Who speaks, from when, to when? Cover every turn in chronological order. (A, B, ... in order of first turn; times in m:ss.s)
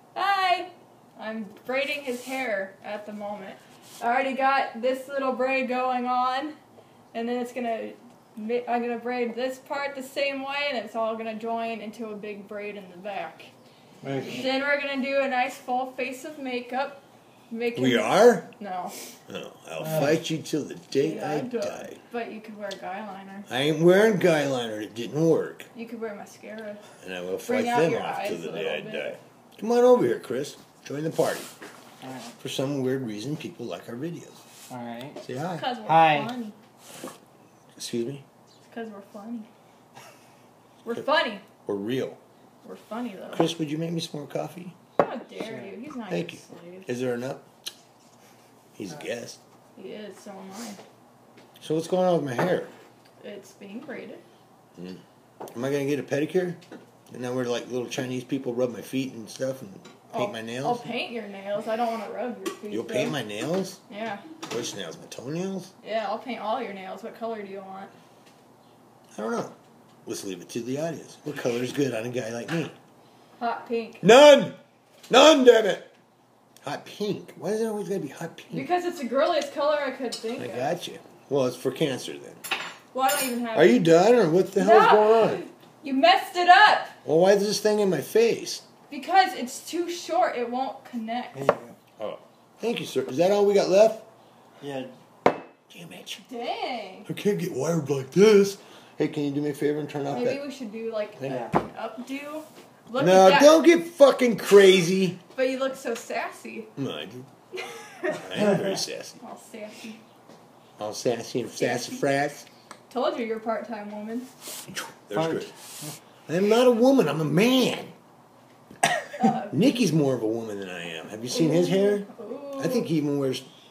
0:00.1-0:06.6 A
0:07.1-0:13.5 A
0:14.0-0:14.4 B
0:14.2-0:18.9 A
0:17.8-0:18.5 C
0:19.3-0:22.0 C
0:19.8-0:20.2 B
0:21.0-0:23.5 A
0:23.5-0:25.7 C
0:25.7-0:26.8 A
0:27.0-0:31.5 C
0:27.4-0:29.2 A
0:32.0-0:32.3 B
0:32.4-0:34.4 C
0:34.7-0:35.2 B
0:35.2-0:35.7 C
0:35.6-0:36.6 A
0:35.8-0:36.3 B
0:37.8-0:38.2 C
0:38.6-0:39.5 A
0:40.8-0:41.4 A
0:41.6-0:42.2 C
0:42.6-0:43.4 A
0:43.3-0:44.7 C
0:45.0-0:46.9 A
0:46.1-0:47.4 C
0:48.8-0:49.4 C
0:49.8-0:50.8 A
0:51.6-0:52.7 C
0:53.2-0:54.2 A
0:55.5-0:56.6 C
0:57.1-1:00.8 C
1:00.1-1:03.2 A
1:02.7-1:03.8 C
1:03.9-1:04.2 A
1:04.5-1:05.7 C
1:05.8-1:07.9 A
1:09.1-1:09.5 C
1:10.0-1:12.7 C
1:13.4-1:14.0 A
1:14.0-1:14.6 C
1:15.1-1:15.9 C
1:16.6-1:18.6 C
1:18.5-1:20.8 A
1:20.4-1:22.4 C
1:22.9-1:23.8 A
1:23.5-1:25.4 C
1:24.6-1:26.9 A
1:27.0-1:28.6 C
1:28.9-1:31.5 A
1:31.3-1:31.7 B
1:32.0-1:34.0 C
1:34.6-1:34.9 B
1:35.7-1:36.2 C
1:36.2-1:37.1 A
1:37.1-1:40.4 C
1:40.1-1:43.6 A
1:41.2-1:41.5 B
1:43.0-1:45.2 C
1:45.3-1:46.7 A
1:46.8-1:47.2 C
1:47.6-1:48.4 A
1:48.2-1:49.2 C
1:49.2-1:50.0 A
1:50.8-1:52.4 C
1:51.6-1:52.1 A
1:52.9-1:54.3 A
1:54.7-1:55.5 C
1:55.1-1:55.9 B
1:56.3-1:57.9 C
1:59.2-1:59.6 A
1:59.5-2:02.0 C
2:01.3-2:02.9 A
2:02.6-2:03.4 C